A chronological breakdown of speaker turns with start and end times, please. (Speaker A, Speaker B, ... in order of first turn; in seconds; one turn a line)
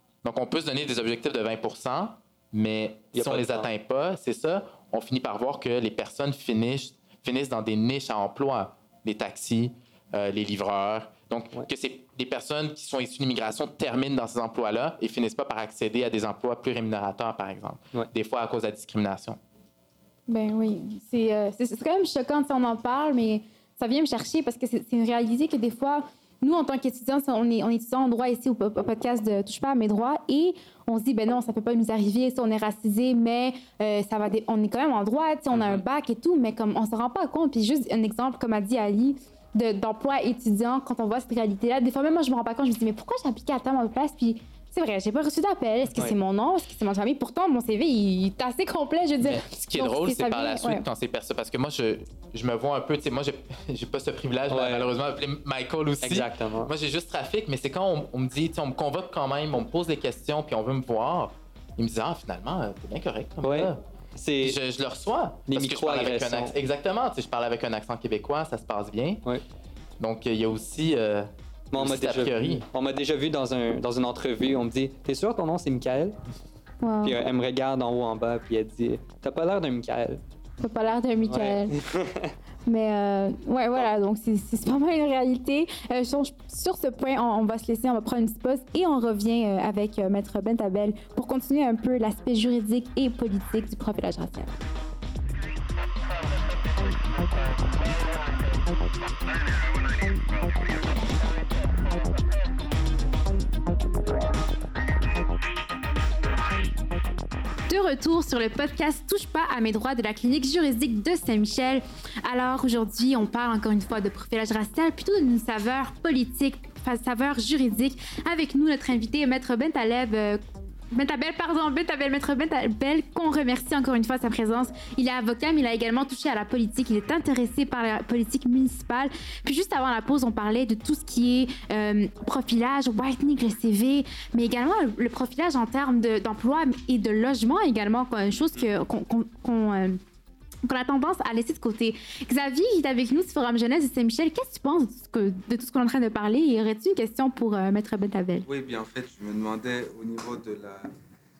Speaker A: 0.2-19.4
Speaker B: 3.1-3.7
Speaker C: 20.3-50.8
Speaker B: 35.5-35.8
Speaker A: 49.2-63.8
Speaker B: 54.5-54.9
Speaker B: 56.0-56.7
Speaker B: 63.4-64.6
Speaker A: 64.4-69.2
Speaker B: 65.5-66.5
Speaker A: 70.0-72.6
Speaker B: 71.7-76.2
Speaker C: 76.8-77.2
Speaker B: 77.0-80.2
Speaker C: 80.6-81.7
Speaker B: 81.3-82.3
Speaker C: 82.7-94.5
Speaker C: 107.7-120.4
Speaker C: 120.9-140.0
Speaker C: 140.6-148.4
Speaker D: 148.4-150.9